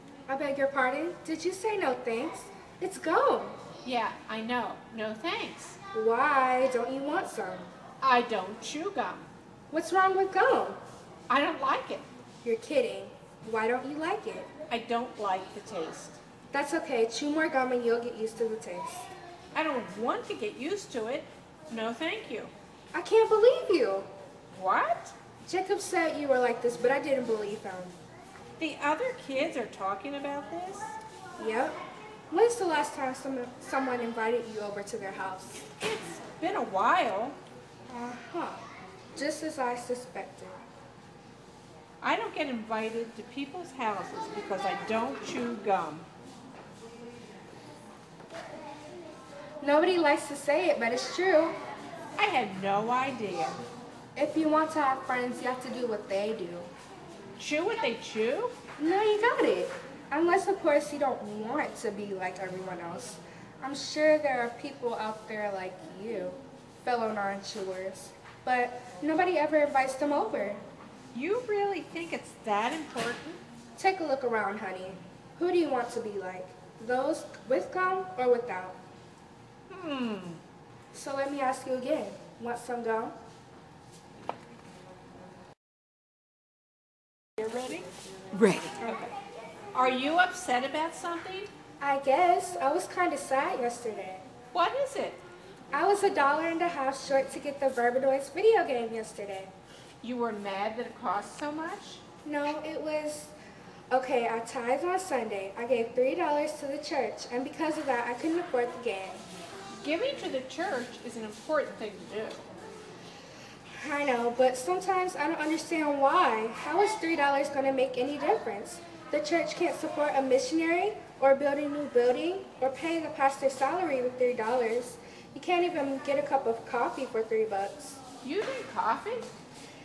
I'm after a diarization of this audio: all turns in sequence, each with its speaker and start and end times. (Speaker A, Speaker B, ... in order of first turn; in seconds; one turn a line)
Speaker A: 0.3-3.6
Speaker B: 3.8-5.8
Speaker A: 5.9-7.7
Speaker B: 8.0-9.3
Speaker A: 9.7-10.8
Speaker B: 11.3-12.1
Speaker A: 12.4-14.5
Speaker B: 14.7-16.2
Speaker A: 16.5-19.1
Speaker B: 19.5-22.5
Speaker A: 22.9-24.1
Speaker B: 24.5-25.1
Speaker A: 25.4-27.9
Speaker B: 28.6-31.0
Speaker A: 31.4-31.8
Speaker A: 32.3-35.7
Speaker B: 35.8-37.4
Speaker A: 37.9-40.6
Speaker B: 42.0-46.0
Speaker A: 49.6-51.6
Speaker B: 52.2-53.6
Speaker A: 54.1-56.7
Speaker B: 57.4-58.5
Speaker A: 58.8-70.6
Speaker B: 71.1-73.4
Speaker A: 73.8-78.8
Speaker B: 79.7-80.4
Speaker A: 80.9-83.1
Speaker B: 87.4-89.1
Speaker A: 88.8-89.1
Speaker B: 89.7-91.5
Speaker A: 91.8-94.2
Speaker B: 94.5-95.2
Speaker A: 95.7-99.5
Speaker B: 100.0-102.0
Speaker A: 102.2-103.3
Speaker A: 103.9-109.2
Speaker B: 109.7-112.5
Speaker A: 113.7-128.0
Speaker B: 128.2-129.3